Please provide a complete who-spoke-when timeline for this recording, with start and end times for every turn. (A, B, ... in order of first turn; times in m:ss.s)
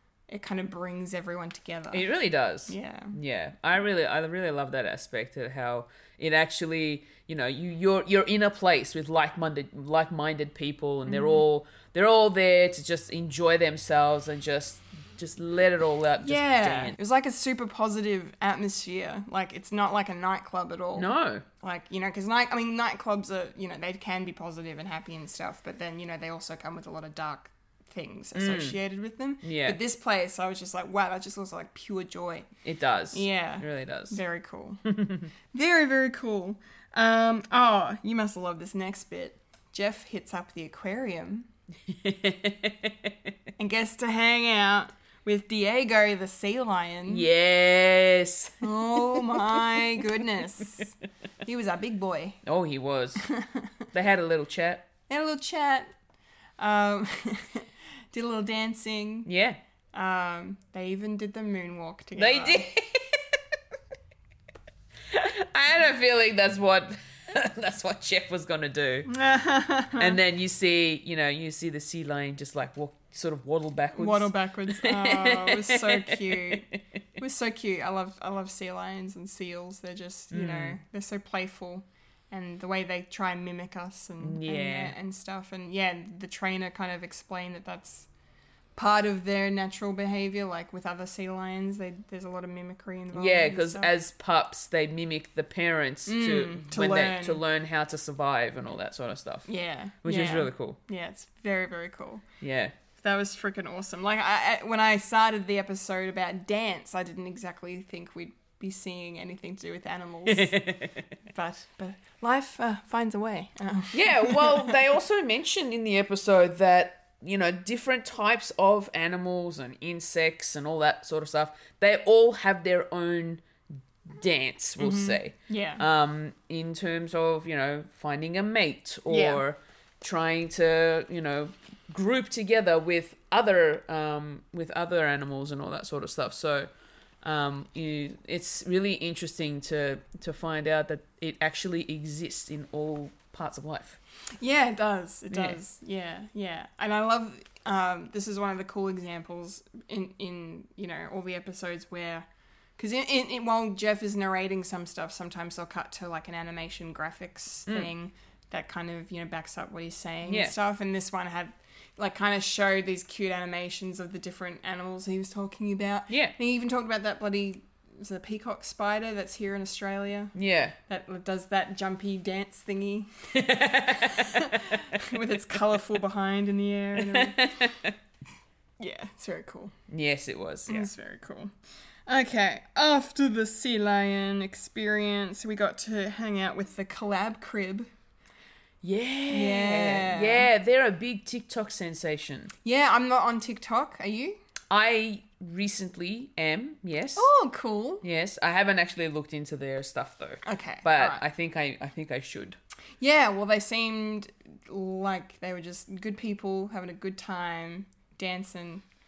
0:00.3-0:02.1 A
0:01.9-0:17.0 B
0:02.7-0:03.2 A
0:11.1-0:11.4 A
0:16.2-0:32.5 A
0:21.0-0:21.4 B
0:28.4-0:28.8 B
0:29.4-0:29.8 B
0:32.6-0:34.2 B
0:33.1-0:34.8 A
0:34.9-0:35.3 B
0:35.5-0:41.5 A
0:41.9-0:43.2 B
0:43.6-0:47.3 A
0:47.1-0:49.8 B
0:48.6-0:52.4 A
0:52.4-0:53.3 B
0:53.2-0:53.7 A
0:53.9-0:54.9 B
0:55.1-0:55.9 A
0:56.6-0:59.3 A
0:59.3-0:59.6 B
0:59.9-1:02.7 A
1:02.2-1:03.4 B
1:05.1-1:09.1 B
1:09.1-1:10.2 A
1:10.0-1:16.8 B
1:13.9-1:28.1 A
1:20.3-1:20.8 B
1:24.2-1:24.9 B
1:28.8-1:33.9 A
1:33.1-1:39.5 B
1:36.1-1:37.4 A
1:39.5-1:42.2 A
1:40.0-1:40.8 B
1:42.4-1:42.7 B
1:43.0-1:50.7 A
1:50.3-1:51.0 B
1:51.2-1:54.8 A
1:53.9-2:03.4 B
2:04.0-2:16.7 B
2:04.8-2:05.8 A
2:09.1-2:09.4 A
2:17.2-2:24.0 B
2:24.4-2:32.3 A
2:25.3-2:25.6 B
2:32.8-2:50.3 A
2:40.3-2:40.6 B
2:46.1-2:46.4 B
2:50.4-2:50.8 B
2:50.9-2:57.8 A
2:53.3-2:54.8 B
2:57.0-2:57.9 B
2:58.8-2:59.7 A
2:59.9-3:00.9 B
3:00.7-3:01.5 A
3:02.1-3:07.9 A
3:08.8-3:12.5 B
3:09.3-3:10.5 A
3:12.6-3:14.4 A
3:14.7-3:17.3 B
3:17.2-3:18.0 A
3:18.0-3:22.6 B
3:20.4-3:21.2 A
3:23.0-3:28.8 A